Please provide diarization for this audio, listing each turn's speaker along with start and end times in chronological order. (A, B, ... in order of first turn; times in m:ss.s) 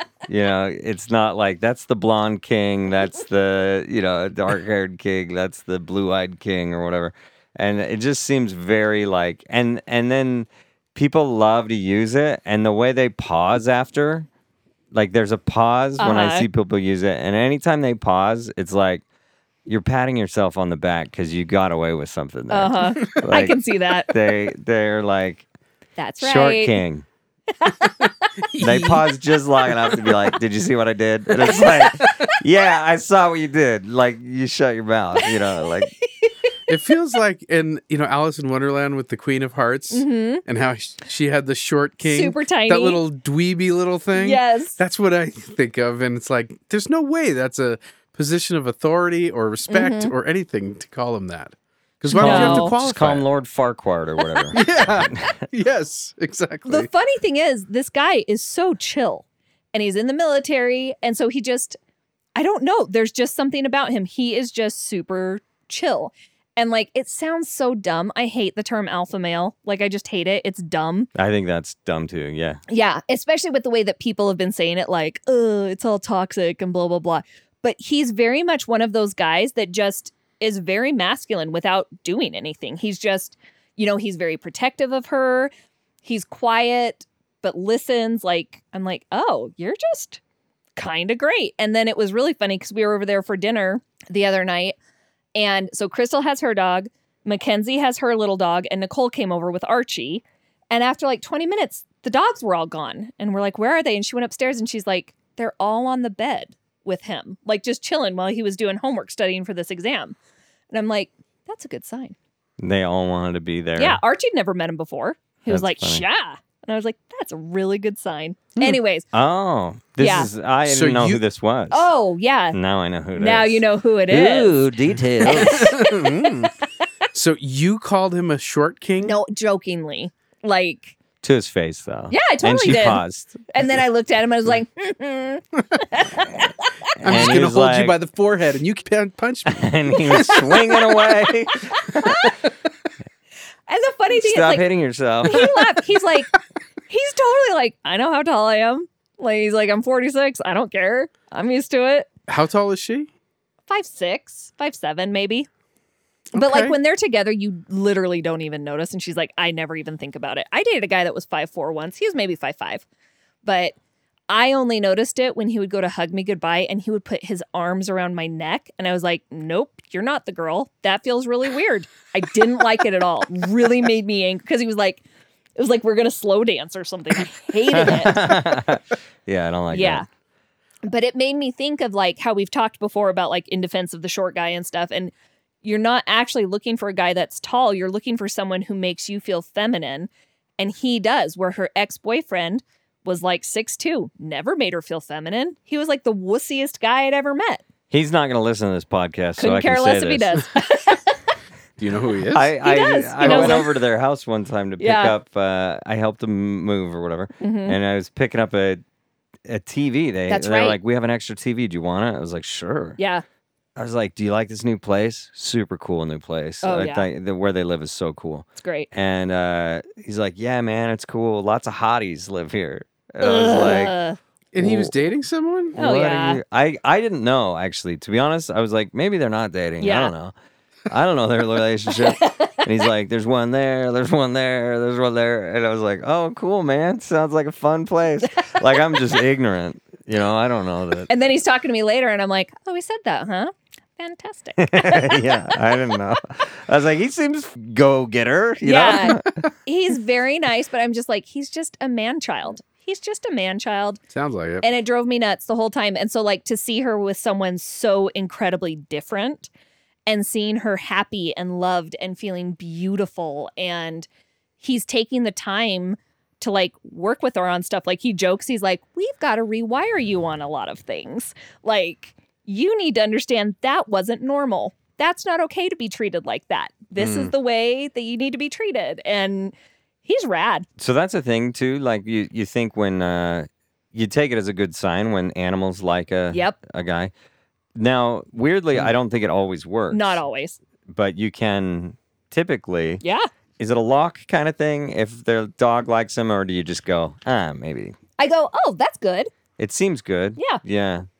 0:00.3-0:14.3 A
0:14.9-0:19.0 A
0:16.0-0:16.4 B
0:19.6-0:23.6 A
0:22.5-0:24.1 B
0:23.0-0:23.3 C
0:24.1-0:25.4 A
0:26.0-0:26.8 B
0:26.2-0:27.0 A
0:27.5-0:28.3 B
0:27.8-0:29.0 C
0:28.6-0:35.9 A
0:29.7-0:30.2 C
0:31.3-0:32.3 C
0:36.0-0:36.5 B
0:36.7-0:53.2 C
0:39.9-0:40.4 B
0:42.0-0:43.0 B
0:44.1-0:44.8 B
0:49.7-0:50.1 B
0:52.1-0:52.7 B
0:52.1-0:55.3 A
0:54.5-0:56.9 C
0:56.6-1:01.8 B
1:02.4-1:11.1 B
1:11.1-1:12.6 A
1:12.7-1:25.5 B
1:26.0-1:30.2 B
1:30.8-1:34.8 B
1:35.4-1:50.2 B
1:50.7-1:52.1 B
1:52.6-1:54.0 A
1:53.8-1:59.0 B
1:55.5-1:56.0 A
1:59.1-2:01.9 A
2:00.0-2:00.3 B
2:00.6-2:01.2 C
2:01.7-2:02.6 B
2:02.5-2:05.8 A
2:03.2-2:06.7 B
2:05.2-2:06.5 C
2:07.1-2:09.2 C
2:09.0-2:11.0 B
2:11.2-2:13.5 A
2:12.1-2:16.9 B
2:17.0-2:20.4 C
2:17.0-2:18.0 A
2:19.5-2:22.3 A
2:19.9-2:20.8 B
2:21.7-2:22.3 B
2:22.2-2:22.5 C
2:23.7-2:24.6 B
2:24.1-2:25.6 A
2:25.2-2:26.3 B
2:26.9-2:32.1 B
2:32.3-2:33.1 C
2:33.7-2:35.5 B
2:36.3-2:36.8 C
2:36.3-2:42.8 B
2:43.4-2:43.7 B
2:44.3-2:55.0 B
2:55.6-2:58.4 B
2:57.7-3:00.0 A
2:59.7-3:00.1 B
3:00.8-3:05.1 B
3:05.6-3:17.6 B
3:17.9-3:20.4 A
3:19.4-3:21.3 B
3:21.8-3:22.5 C
3:22.3-3:28.8 A
3:22.6-3:23.7 B
3:23.2-3:23.7 C
3:24.8-3:25.1 B
3:27.4-3:27.8 B
3:29.4-3:33.0 A
3:30.3-3:30.8 B
3:33.0-3:33.2 B
3:33.8-3:43.9 A
3:36.6-3:37.0 B
3:38.6-3:38.9 B
3:43.2-3:44.2 B
3:44.5-3:45.8 C
3:44.6-3:44.9 A
3:45.8-3:50.3 A
3:45.8-3:46.4 B
3:49.8-3:50.1 B
3:50.9-4:01.1 A
3:52.0-3:52.6 B
4:01.1-4:05.6 B
4:04.6-4:09.3 A
4:08.6-4:14.0 B
4:14.1-4:14.6 C
4:14.6-4:19.5 B
4:20.1-4:24.1 B
4:24.6-4:40.6 B
4:37.0-4:37.3 C
4:40.8-4:47.1 A
4:46.3-4:46.6 B
4:47.8-4:50.2 A
4:49.9-4:50.6 B
4:50.9-4:53.0 A
4:53.0-4:53.3 B
4:53.6-4:57.9 A
4:58.2-4:59.3 B
4:59.6-5:01.0 A
5:00.4-5:00.6 B